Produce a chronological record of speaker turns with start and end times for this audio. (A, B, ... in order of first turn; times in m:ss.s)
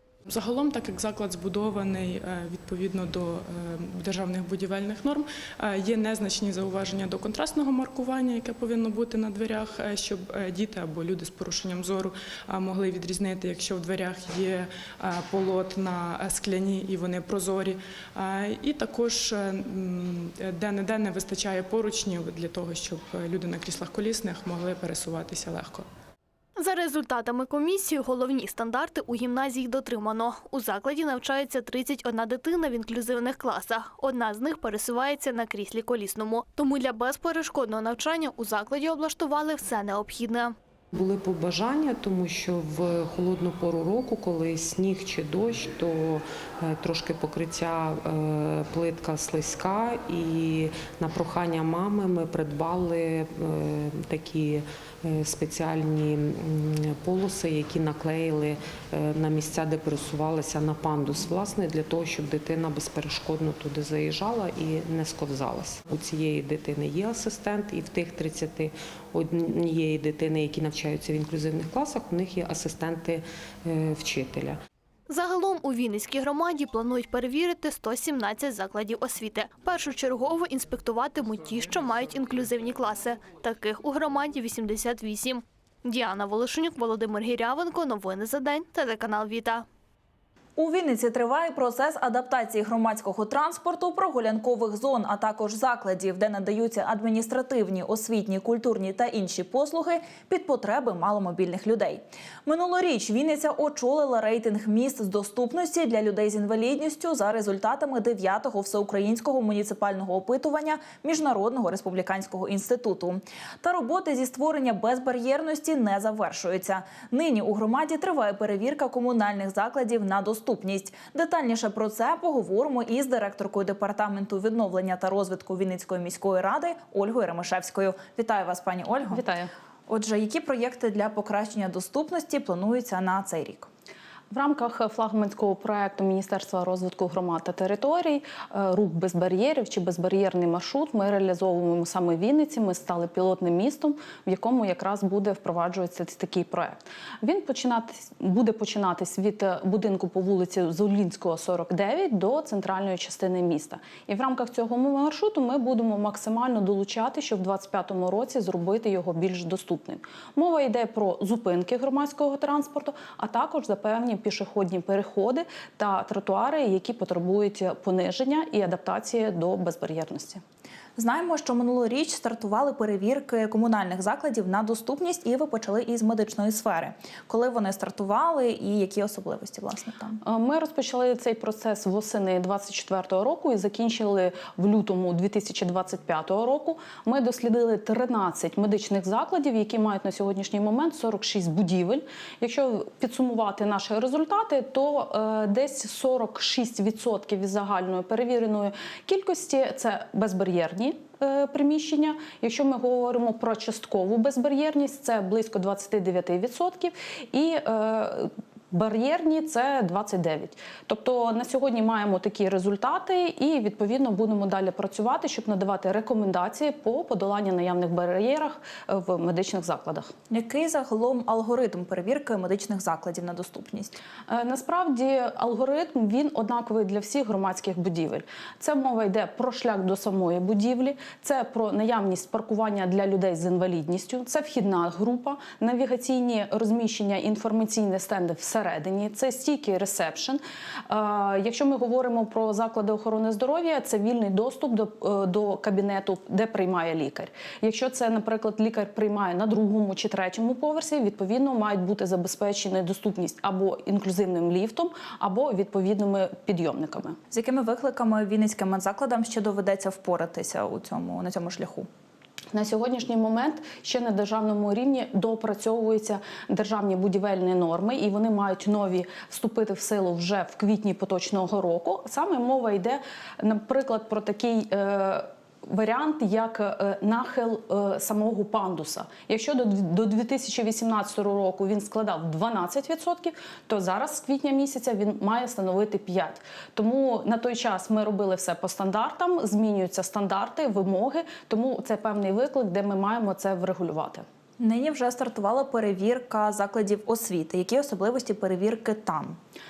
0:00.2-0:25.9 A
0:26.6-0:40.5 B
0:40.9-1:14.6 C
1:15.1-1:29.6 B
1:30.6-2:09.2 D
2:09.1-2:09.5 E
2:09.9-2:13.7 D
2:14.3-2:50.4 E
2:51.0-3:00.2 D
3:00.2-3:40.1 E
3:40.3-3:43.9 D
3:44.3-4:17.2 E
4:17.3-4:21.9 D
4:22.5-4:54.2 E
4:54.6-4:59.4 D